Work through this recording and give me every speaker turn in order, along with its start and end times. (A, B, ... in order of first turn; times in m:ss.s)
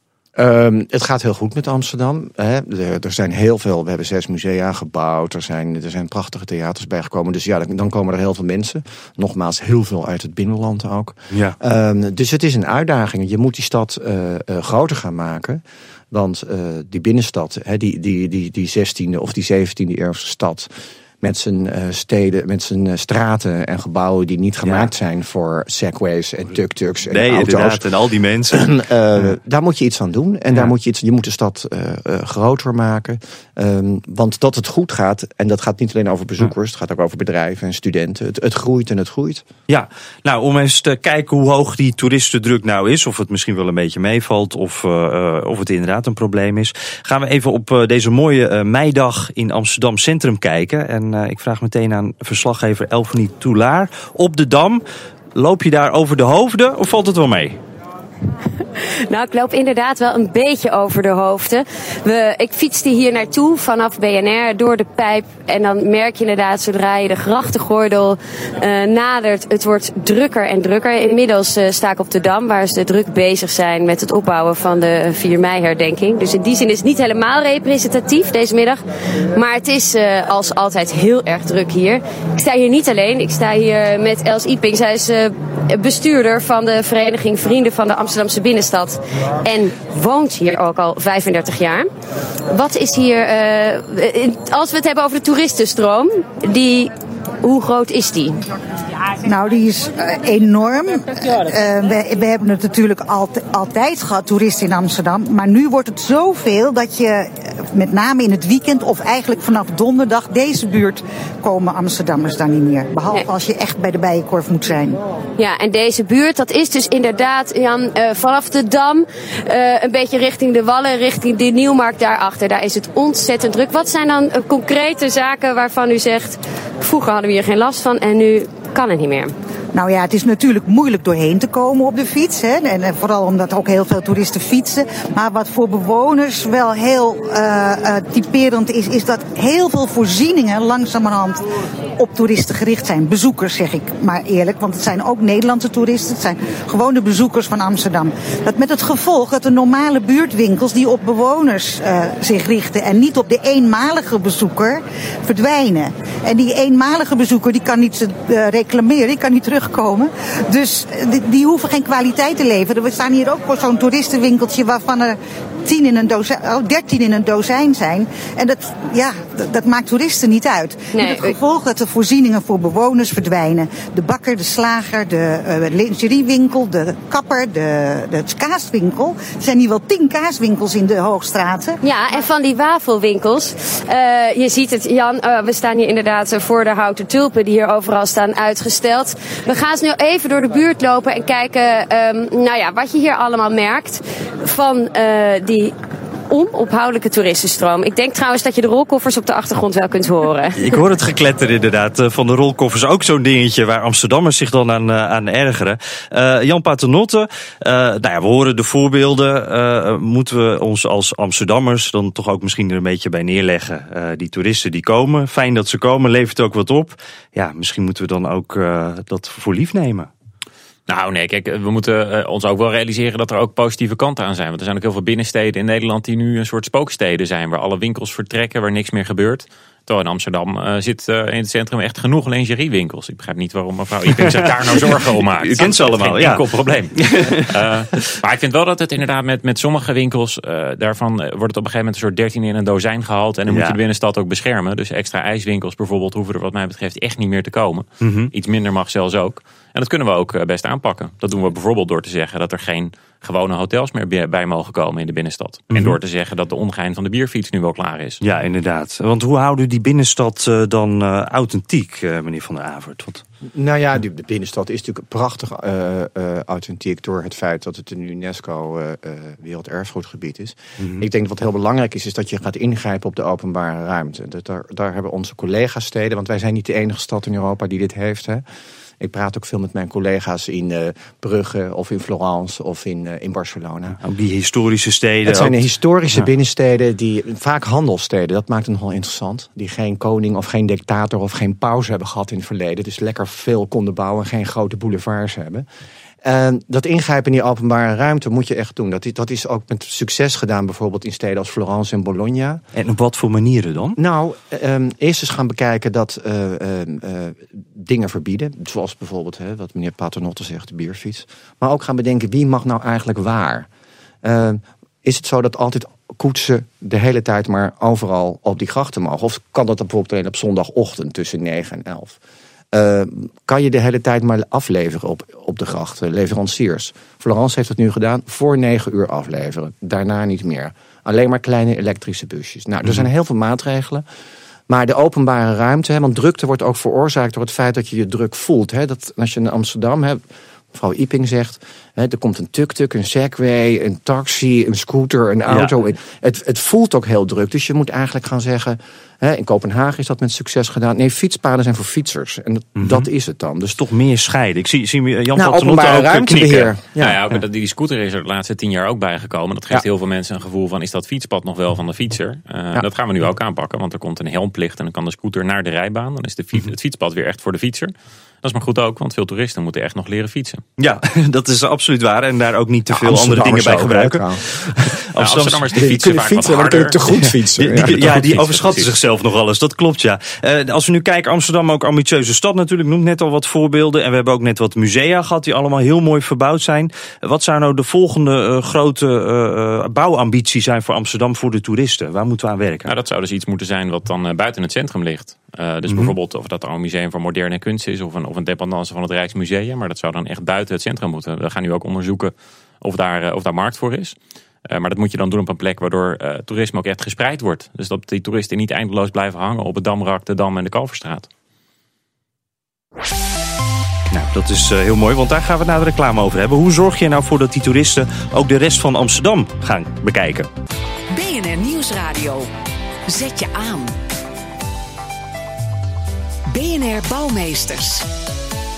0:00.4-0:20.7 A
0:11.3-0:11.6 B
0:21.2-0:27.8 A
0:27.1-0:28.7 B
0:28.5-0:39.5 A
0:39.7-0:54.8 B
0:55.3-0:57.6 B
0:58.6-1:31.9 C
1:32.5-1:38.4 C
1:39.2-1:55.0 D
1:55.4-2:09.3 C
2:09.7-2:21.4 D
2:22.0-3:01.8 D
2:50.9-2:51.4 C
3:01.8-3:15.8 C
3:16.3-3:20.8 C
3:20.6-3:40.1 B
3:40.9-4:18.2 E
3:54.1-3:58.1 B
4:03.5-4:03.8 B
4:08.0-4:08.3 B
4:15.7-4:16.0 B
4:18.2-4:23.2 B
4:23.5-4:38.4 A
4:30.8-4:31.0 B
4:39.0-4:44.0 A
4:44.0-4:45.6 B
4:45.2-4:55.6 A
4:56.2-5:02.6 A
5:02.8-5:04.0 B
5:04.0-5:13.7 A
5:14.2-5:22.2 A
5:22.7-5:34.0 A
5:34.7-5:40.2 A
5:40.7-5:53.8 A
5:52.8-5:53.1 B
5:53.8-5:56.7 B
5:55.4-5:57.2 A
5:57.0-6:10.6 E
6:10.8-6:15.8 B
6:12.9-6:14.9 A
6:15.2-6:17.0 E
6:15.8-6:18.2 A
6:17.5-6:32.9 B
6:17.8-6:18.9 E
6:32.9-6:44.2 E
6:35.9-6:36.2 B
6:44.7-6:51.3 E
6:54.1-7:00.5 B
7:01.1-7:02.5 F
7:03.1-7:03.9 F
7:06.5-7:08.1 F